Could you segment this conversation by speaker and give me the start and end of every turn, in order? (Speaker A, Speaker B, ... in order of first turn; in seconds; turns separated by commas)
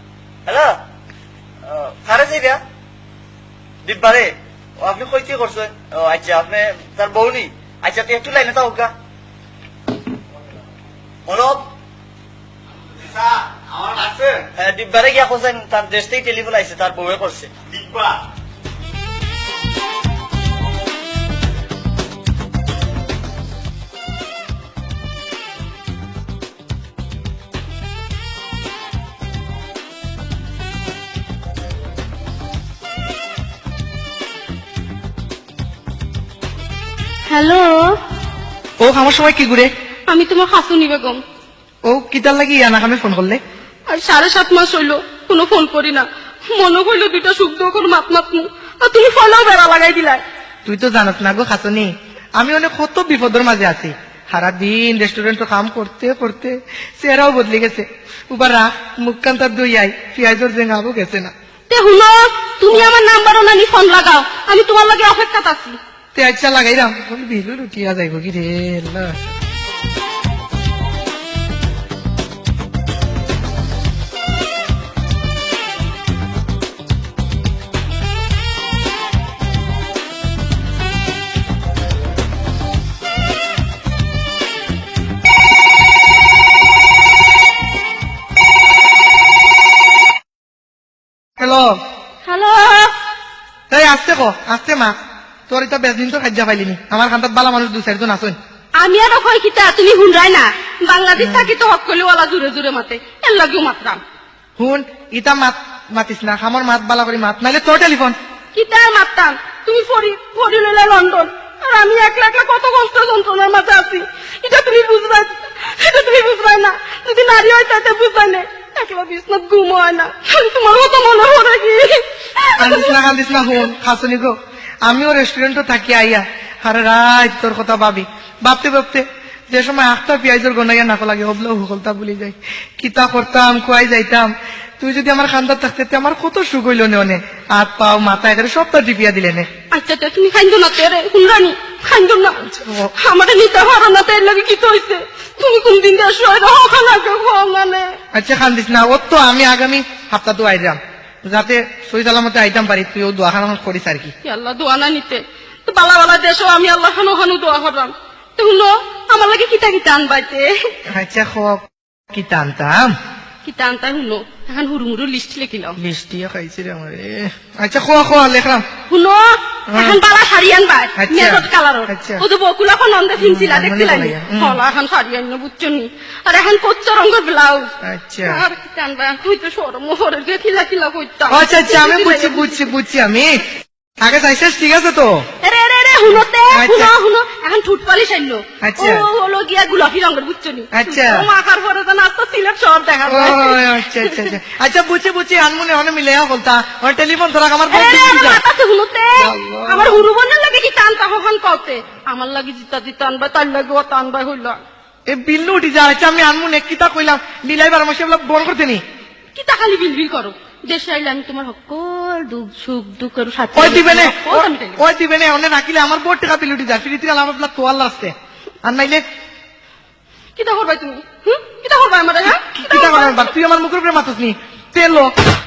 Speaker A: 0.5-0.8, Speaker A: 1.6-2.6, Speaker A: 3.8-8.9, Speaker A: 11.2-11.7, Speaker A: 13.0-18.2, Speaker B: 37.3-38.0, Speaker C: 38.8-39.7, Speaker B: 40.1-41.2, Speaker C: 41.8-43.4, Speaker B: 43.9-50.2, Speaker C: 50.6-61.3, Speaker B: 61.7-65.8, Speaker C: 66.1-69.3, Speaker C: 91.4-91.8, Speaker B: 92.2-92.9, Speaker C: 93.7-94.9, Speaker C: 95.5-98.4, Speaker B: 98.8-104.0, Speaker C: 101.2-101.5, Speaker C: 104.6-108.2, Speaker B: 108.5-123.0, Speaker C: 122.6-139.5, Speaker B: 139.7-148.0, Speaker C: 142.5-142.9, Speaker C: 148.1-154.1, Speaker B: 154.2-160.5, Speaker C: 160.9-162.9, Speaker B: 163.4-165.8, Speaker C: 165.8-168.6, Speaker B: 168.9-177.7, Speaker C: 169.7-170.0, Speaker C: 171.0-172.2, Speaker C: 173.2-174.6, Speaker C: 177.8-178.4, Speaker B: 178.2-182.7, Speaker C: 181.3-183.4, Speaker C: 184.0-185.2, Speaker B: 185.4-194.3, Speaker C: 186.5-186.9, Speaker C: 188.6-189.1, Speaker C: 190.7-191.3, Speaker C: 193.1-198.4, Speaker B: 197.7-204.6, Speaker C: 199.2-200.1, Speaker C: 205.1-208.8, Speaker B: 209.3-214.8, Speaker C: 213.5-219.0, Speaker B: 220.3-223.3, Speaker C: 222.3-225.1